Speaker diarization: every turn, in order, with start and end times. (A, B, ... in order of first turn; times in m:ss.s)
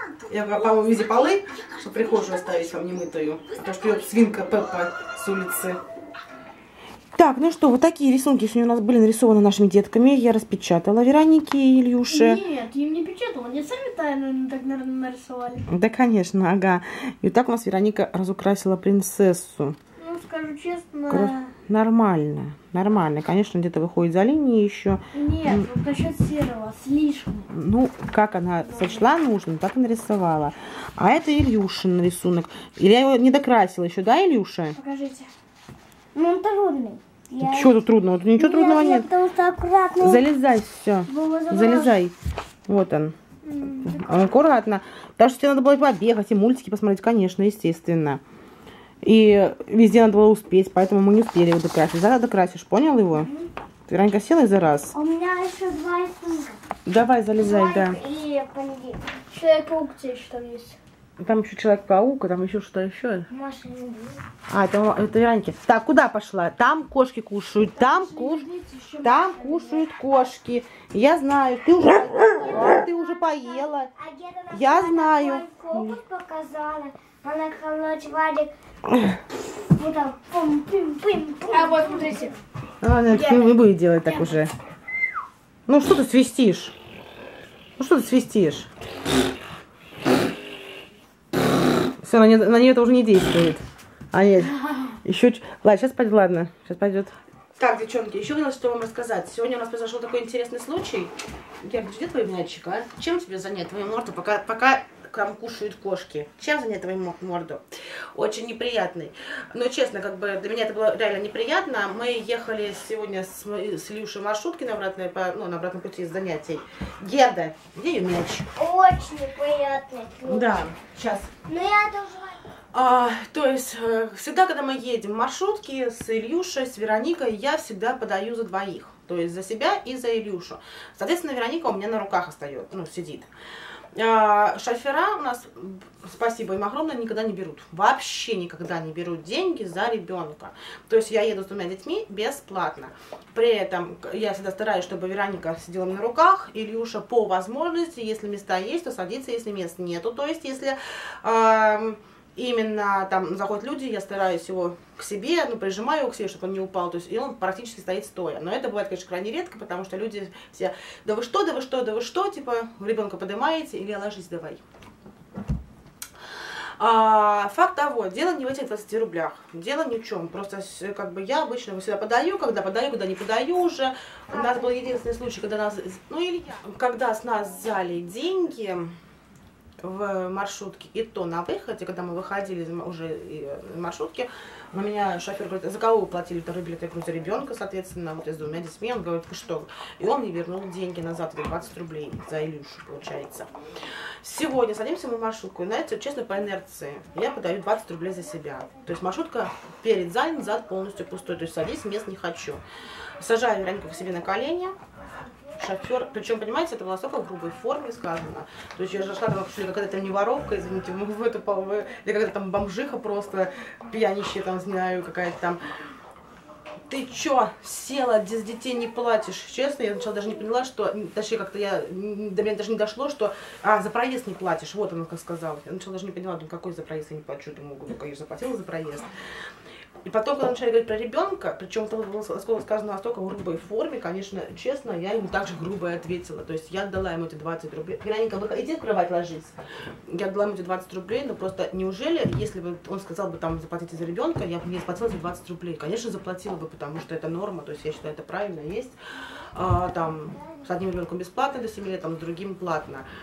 0:00.3-0:05.8 A
0:07.2-0:12.4 A
0:12.1-0:15.6 B
0:15.7-0:19.8 A
0:20.1-0:21.4 C
0:20.1-0:21.3 B
0:21.1-0:25.7 A
0:25.1-0:27.4 B
0:27.5-0:34.8 A
0:28.7-0:29.0 B
0:34.7-0:35.3 B
0:36.2-0:37.8 C
0:37.4-0:39.1 A
0:38.4-0:40.3 C
0:40.0-0:42.2 A
0:41.1-0:42.0 C
0:42.7-0:43.2 A
0:43.5-0:44.4 B
0:43.8-0:48.2 A
0:49.0-0:53.3 A
0:53.2-0:53.5 C
0:53.9-0:54.9 A
0:54.9-0:56.6 C
0:56.9-0:58.0 A
0:57.4-0:59.2 C
0:59.3-1:00.8 B
1:01.2-1:03.3 A
1:03.3-1:04.2 C
1:04.5-1:08.5 A
1:07.9-1:09.6 B
1:07.9-1:08.8 C
1:09.0-1:13.9 A
1:12.2-1:18.5 C
1:14.5-1:16.0 A
1:19.7-1:22.4 C
1:21.5-1:22.3 B
1:22.8-1:24.5 A
1:23.1-1:23.6 C
1:25.7-1:26.8 A
1:27.8-1:28.7 A
1:32.0-1:58.5 A
1:58.6-2:00.6 C
2:00.2-2:01.3 A
2:01.5-2:02.4 C
2:02.7-2:13.3 A
2:13.9-2:44.6 A
2:46.8-2:59.0 A
2:59.8-3:13.5 A
3:14.2-3:22.6 A
3:23.2-3:24.8 A
3:25.6-3:35.6 A
3:36.9-3:49.1 A
3:50.0-4:09.0 A
4:09.5-4:13.1 A